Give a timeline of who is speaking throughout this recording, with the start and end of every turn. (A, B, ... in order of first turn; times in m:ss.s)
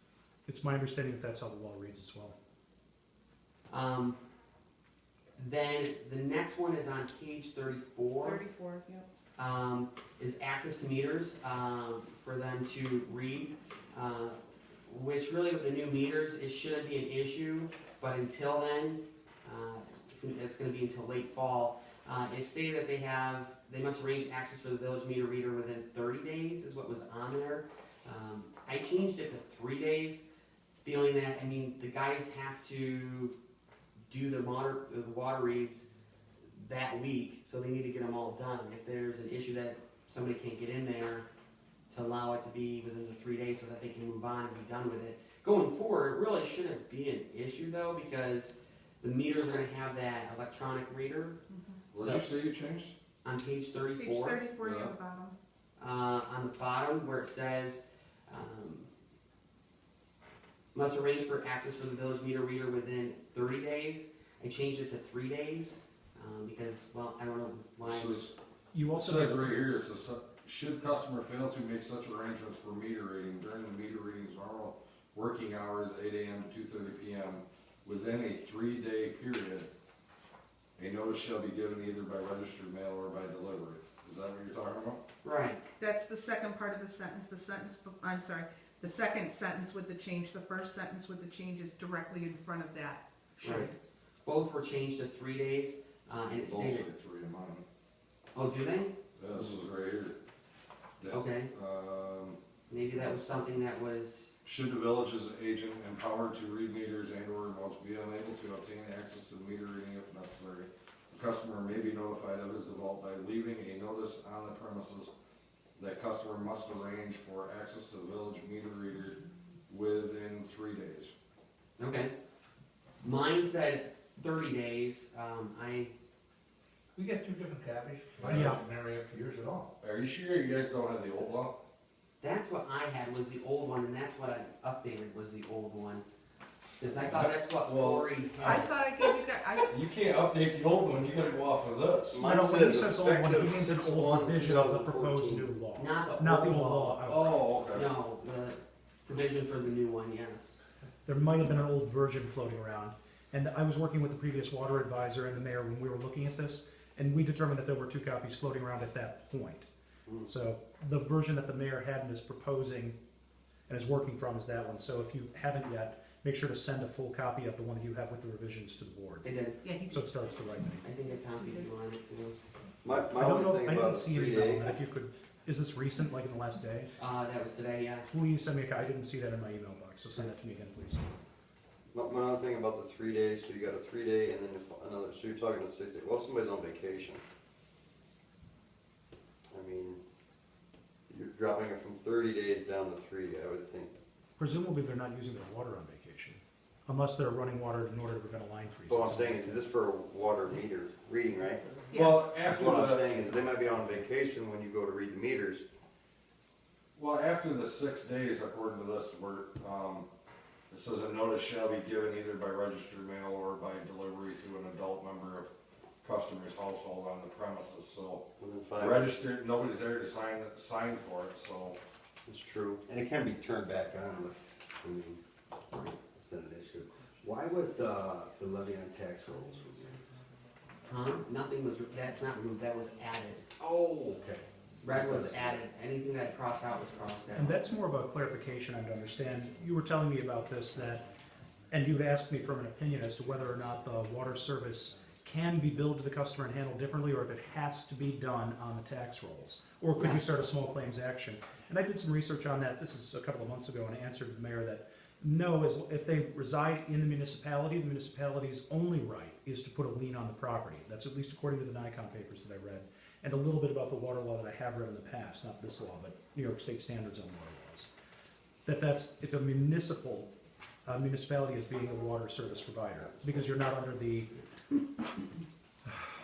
0:00.5-0:02.4 A
0:03.7-0:04.2 B
0:05.4-0:08.4 B
0:08.2-0:09.0 C
0:09.4-0:30.2 B
0:30.8-0:33.3 B
0:34.1-0:35.8 B
0:36.5-0:41.3 B
0:41.9-0:51.4 B
0:51.5-0:51.8 C
0:51.9-0:53.0 D
0:51.9-0:52.2 B
0:53.2-0:54.4 B
0:54.0-0:55.4 C
0:54.6-0:54.9 D
0:55.8-0:58.9 B
1:00.7-1:08.3 B
1:07.8-1:08.3 D
1:08.7-1:09.6 A
1:08.9-1:19.7 D
1:20.8-1:25.0 D
1:25.2-1:25.6 B
1:25.8-1:33.8 C
1:33.4-1:33.7 B
1:34.2-1:36.9 B
1:36.4-1:37.6 D
1:38.3-1:38.9 B
1:39.2-1:40.2 D
1:41.0-1:42.4 D
1:41.1-1:41.5 B
1:42.7-1:44.3 B
1:44.4-1:55.1 D
1:55.8-2:01.1 D
2:01.8-2:02.1 B
2:03.0-2:05.9 B
2:07.0-2:09.7 E
2:08.2-2:08.5 D
2:08.3-2:08.6 A
2:09.8-2:11.6 D
2:12.2-2:16.0 B
2:16.8-2:18.7 B
2:17.0-2:19.1 D
2:18.4-2:19.7 C
2:19.6-2:22.2 D
2:22.1-2:25.5 F
2:22.2-2:27.5 A
2:25.8-2:30.6 B
2:27.0-2:27.9 D
2:31.1-2:39.7 A
2:40.2-2:43.0 A
2:43.7-2:49.3 A
2:49.2-2:49.6 B
2:49.6-2:50.1 C
2:49.9-2:50.8 A
2:50.8-2:52.4 B
2:51.4-2:51.7 C
2:52.8-2:54.8 F
2:53.1-2:56.9 A
2:57.0-2:58.1 B
2:58.1-3:01.1 A
3:01.9-3:07.2 F
3:09.5-3:10.0 F
3:11.1-3:13.9 F
3:14.4-3:19.6 A
3:18.9-3:25.6 F
3:21.9-3:22.3 C
3:21.9-3:23.2 D
3:27.0-3:30.1 D
3:30.7-3:35.5 D
3:36.0-3:38.3 D
3:38.4-3:39.2 F
3:38.8-3:41.8 D
3:42.3-3:45.2 F
3:46.1-3:50.0 F
3:46.9-3:51.1 G
3:50.9-3:53.5 B
3:53.6-3:55.6 F
3:54.8-3:57.6 B
3:56.5-3:58.1 G
3:57.4-4:01.1 A
4:00.7-4:01.2 G
4:01.7-4:27.9 A
4:03.6-4:04.0 G
4:10.0-4:10.2 B
4:28.6-4:30.3 A
4:30.8-4:34.3 A
4:32.9-4:33.5 F